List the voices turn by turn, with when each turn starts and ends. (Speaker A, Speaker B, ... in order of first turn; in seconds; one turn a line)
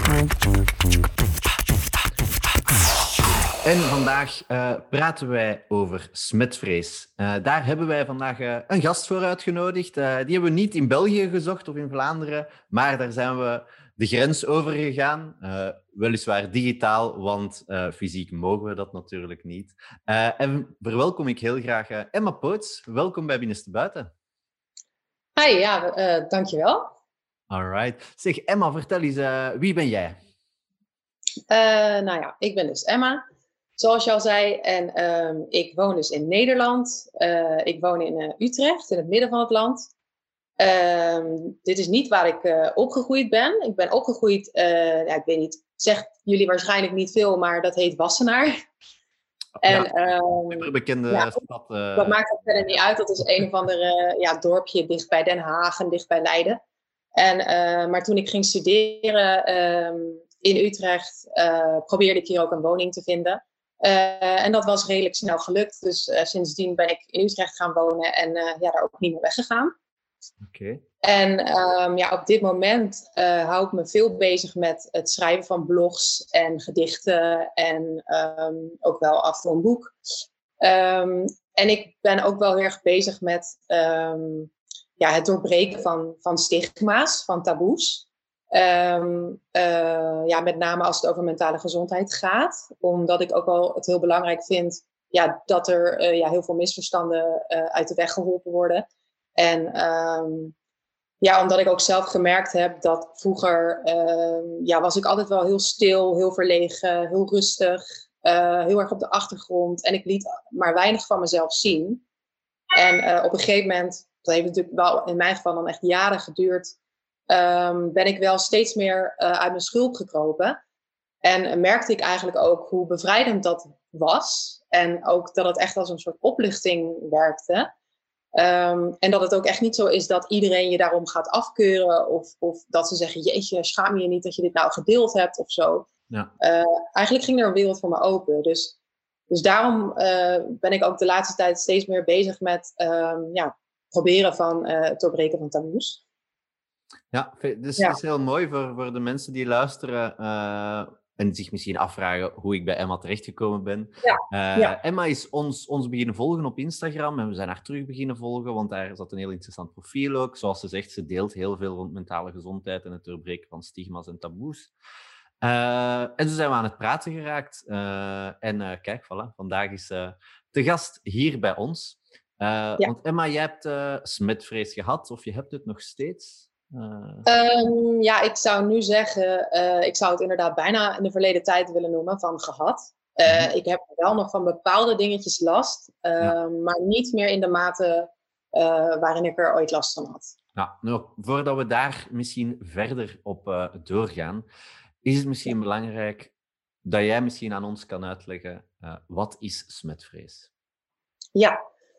Speaker A: 3.6-24.1
Speaker B: 25.4-26.9
Speaker A: 27.5-30.2
Speaker B: 31.5-33.2
Speaker B: 33.8-39.9
Speaker B: 40.6-48.6
Speaker B: 49.6-51.4
Speaker A: 49.6-49.9
Speaker A: 50.5-52.2
Speaker B: 52.0-56.6
Speaker B: 57.2-69.7
Speaker A: 70.4-70.8
Speaker B: 71.0-80.0
Speaker B: 80.6-98.9
Speaker B: 99.4-100.5
Speaker B: 101.2-112.0
Speaker B: 112.8-116.7
Speaker B: 117.3-120.6
Speaker B: 121.2-127.7
Speaker B: 128.3-135.9
Speaker B: 136.4-138.7
Speaker B: 139.3-146.0
Speaker A: 147.1-164.7
Speaker B: 154.0-154.8
Speaker A: 165.4-177.3
Speaker B: 177.3-190.3
Speaker A: 183.2-183.5
Speaker A: 190.6-194.4
Speaker A: 195.0-196.3
Speaker A: 196.8-200.5